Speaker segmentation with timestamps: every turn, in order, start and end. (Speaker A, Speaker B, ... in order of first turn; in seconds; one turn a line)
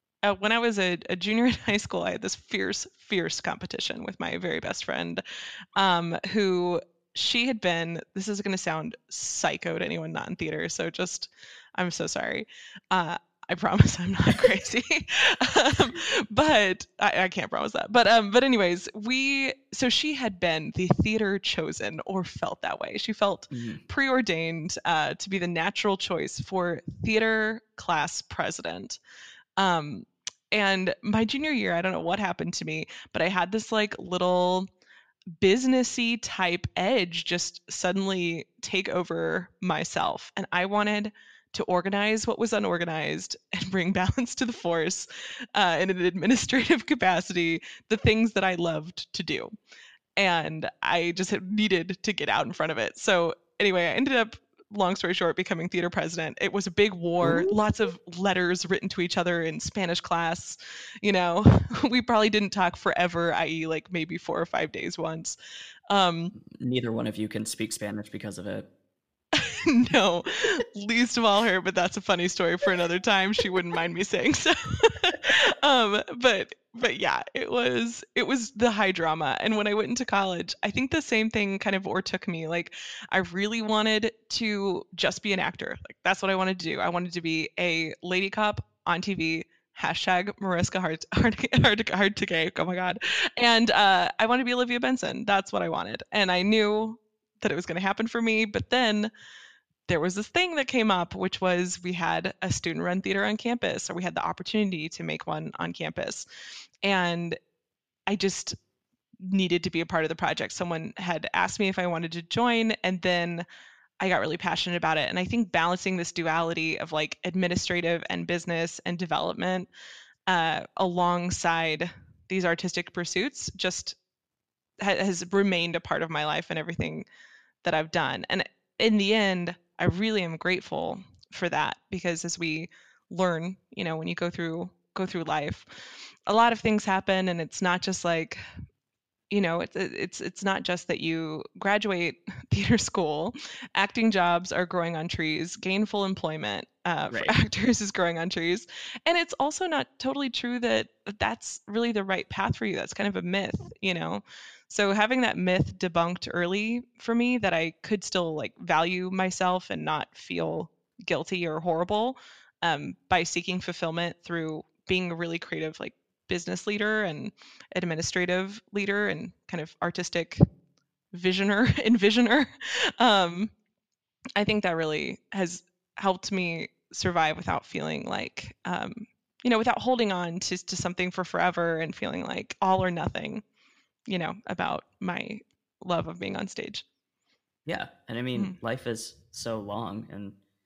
Speaker A: 0.2-5.2
Speaker A: 5.8-29.0
Speaker B: 23.5-23.8
Speaker A: 29.6-34.7
Speaker A: 35.4-49.5
Speaker A: 50.2-65.3
Speaker B: 57.2-57.6
Speaker A: 65.9-66.3
Speaker B: 66.4-68.7
Speaker A: 69.3-99.1
Speaker A: 99.9-106.2
Speaker A: 106.8-107.4
Speaker A: 108.1-108.6
Speaker A: 109.2-113.5
Speaker A: 114.0-119.7
Speaker A: 120.3-124.0
Speaker A: 124.8-127.1
Speaker A: 127.6-138.4
Speaker A: 139.3-170.4
Speaker B: 147.1-147.4
Speaker A: 171.1-173.5
Speaker A: 174.3-183.4
Speaker A: 184.1-186.8
Speaker B: 187.7-190.4